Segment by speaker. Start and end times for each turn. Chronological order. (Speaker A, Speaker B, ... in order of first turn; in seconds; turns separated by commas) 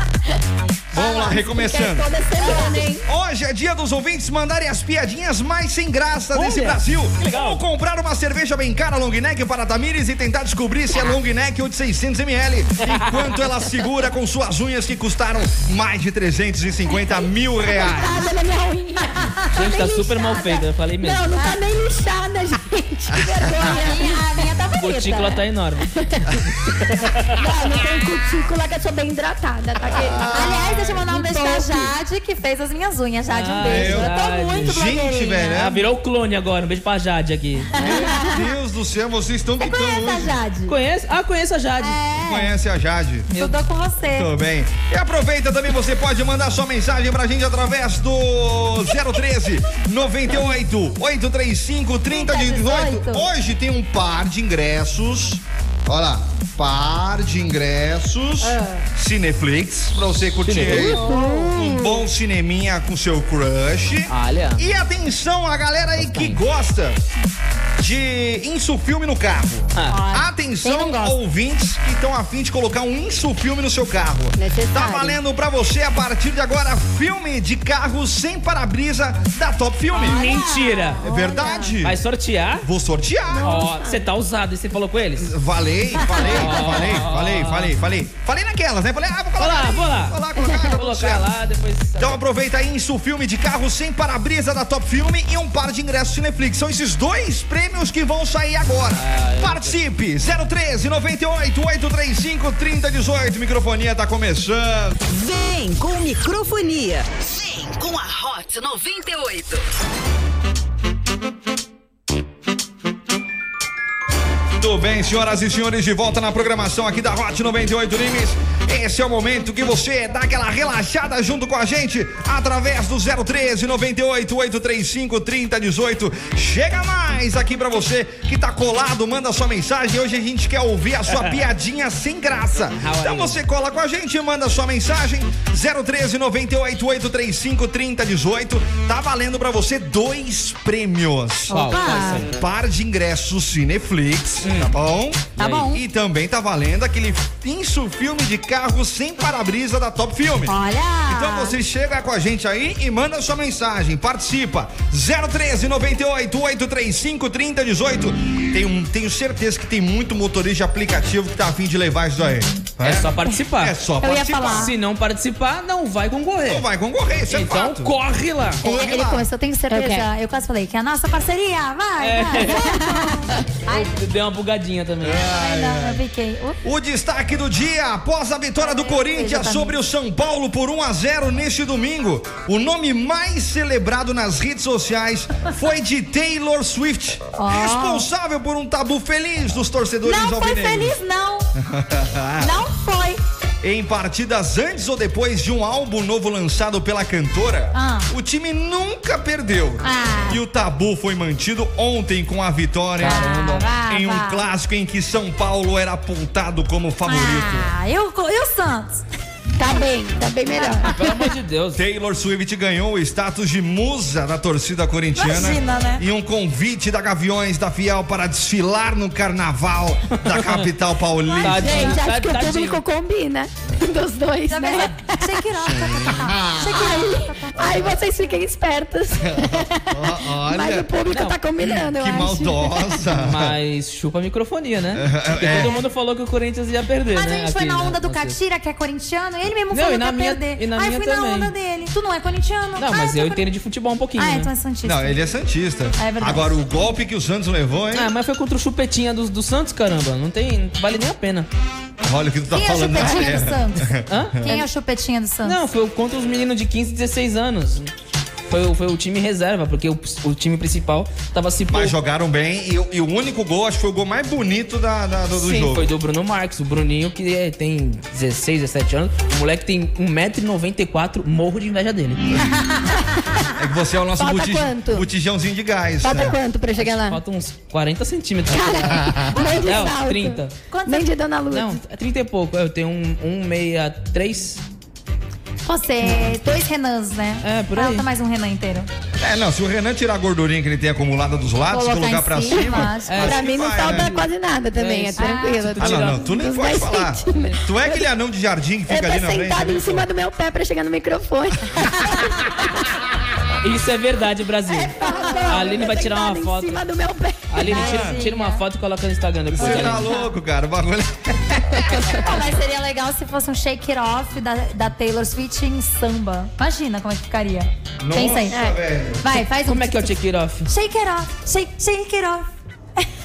Speaker A: 0.9-18.3, Speaker B: 0.9-3.0, Speaker C: 2.4-2.8, Speaker D: 6.3-7.6, Speaker D: 12.8-13.3, Speaker B: 17.6-24.3, Speaker C: 19.4-19.8, Speaker D: 19.5-21.3, Speaker C: 23.6-25.4, Speaker D: 24.8-25.9, Speaker B: 26.0-26.4, Speaker D: 26.9-27.3, Speaker B: 27.3-31.9, Speaker A: 29.9-30.8, Speaker C: 30.3-35.6, Speaker D: 33.3-34.8, Speaker A: 33.6-35.8, Speaker D: 35.5-37.7, Speaker B: 37.8-38.4, Speaker A: 37.8-40.3, Speaker C: 37.8-38.1, Speaker C: 39.6-40.7, Speaker D: 40.7-42.0, Speaker C: 41.8-42.5, Speaker A: 42.1-43.3, Speaker D: 43.3-43.5, Speaker C: 43.3-44.3, Speaker A: 44.1-67.0, Speaker C: 52.1-53.3, Speaker D: 60.5-61.0, Speaker C: 60.8-61.3, Speaker B: 61.0-62.0, Speaker D: 64.1-64.6, Speaker D: 66.0-66.4, Speaker A: 67.8-80.4, Speaker D: 69.7-70.0, Speaker C: 69.9-71.2, Speaker B: 74.3-75.2, Speaker D: 79.9-81.0, Speaker C: 79.9-81.1, Speaker A: 81.0-82.0, Speaker B: 81.0-81.7, Speaker D: 81.8-82.7, Speaker A: 82.6-83.5, Speaker B: 83.3-84.0, Speaker D: 83.4-85.3, Speaker A: 85.2-91.3, Speaker D: 86.2-87.7, Speaker D: 89.4-92.2, Speaker B: 90.4-90.7, Speaker A: 92.0-104.9, Speaker D: 98.9-99.8, Speaker E: 105.1-109.6, Speaker A: 114.6-141.7, Speaker D: 132.7-133.4, Speaker C: 141.5-142.2, Speaker D: 141.5-142.3, Speaker A: 142.2-164.7, Speaker D: 144.4-144.7, Speaker D: 145.4-145.7, Speaker C: 145.4-145.8, Speaker C: 150.4-151.6, Speaker D: 162.8-163.8, Speaker C: 164.0-164.7, Speaker D: 164.5-166.6, Speaker A: 166.4-167.9, Speaker D: 167.3-168.6, Speaker A: 168.6-169.2, Speaker B: 168.6-170.1, Speaker C: 169.7-174.0, Speaker D: 172.0-172.7, Speaker D: 173.7-175.2, Speaker A: 175.0-176.0, Speaker C: 175.3-176.6, Speaker A: 176.6-191.0, Speaker C: 178.6-179.8, Speaker C: 187.4-188.1, Speaker C: 190.0-191.5, Speaker A: 191.5-192.6, Speaker C: 192.4-193.2, Speaker A: 193.6-203.2, Speaker C: 197.7-198.1, Speaker C: 199.8-200.4, Speaker D: 203.0-203.7, Speaker C: 203.0-204.4, Speaker A: 203.9-207.7, Speaker C: 207.1-209.0, Speaker B: 209.6-211.0, Speaker D: 210.9-211.8, Speaker A: 211.7-222.0, Speaker C: 215.2-216.0, Speaker D: 220.1-220.7, Speaker D: 221.4-222.8, Speaker B: 221.6-225.3, Speaker C: 224.5-227.8, Speaker A: 225.7-227.0, Speaker B: 226.6-233.0, Speaker A: 227.6-227.9, Speaker A: 229.3-230.9, Speaker D: 231.1-231.4, Speaker A: 231.7-233.5, Speaker D: 233.1-238.3, Speaker A: 234.9-235.8, Speaker C: 235.5-235.8, Speaker C: 237.1-243.4, Speaker D: 239.7-241.5, Speaker D: 242.8-244.5, Speaker C: 244.2-245.2, Speaker A: 244.8-248.1, Speaker C: 246.0-246.5, Speaker D: 247.9-251.5, Speaker A: 252.0-254.5, Speaker C: 252.5-255.6, Speaker D: 254.1-254.4, Speaker D: 255.4-257.9, Speaker D: 258.5-261.9, Speaker A: 261.7-265.9, Speaker D: 265.6-272.3, Speaker A: 272.3-272.6, Speaker A: 273.6-276.4, Speaker B: 274.2-275.1, Speaker B: 276.0-277.2, Speaker D: 276.8-280.5, Speaker B: 278.5-281.8, Speaker C: 280.7-281.1, Speaker D: 281.5-284.6, Speaker C: 285.6-288.9, Speaker D: 287.4-288.1, Speaker A: 289.2-294.1, Speaker C: 291.7-293.2, Speaker B: 292.6-298.0, Speaker D: 293.1-296.3, Speaker C: 295.2-295.6, Speaker A: 295.8-300.1, Speaker B: 298.9-302.6, Speaker D: 303.6-306.8, Speaker B: 304.7-307.5, Speaker D: 307.5-310.1, Speaker C: 307.6-308.6, Speaker A: 307.7-308.2, Speaker A: 309.5-311.9, Speaker C: 309.6-310.3, Speaker C: 312.2-318.5, Speaker A: 318.0-319.2, Speaker B: 318.5-318.8, Speaker C: 319.2-320.1, Speaker D: 319.6-320.7, Speaker C: 320.6-322.5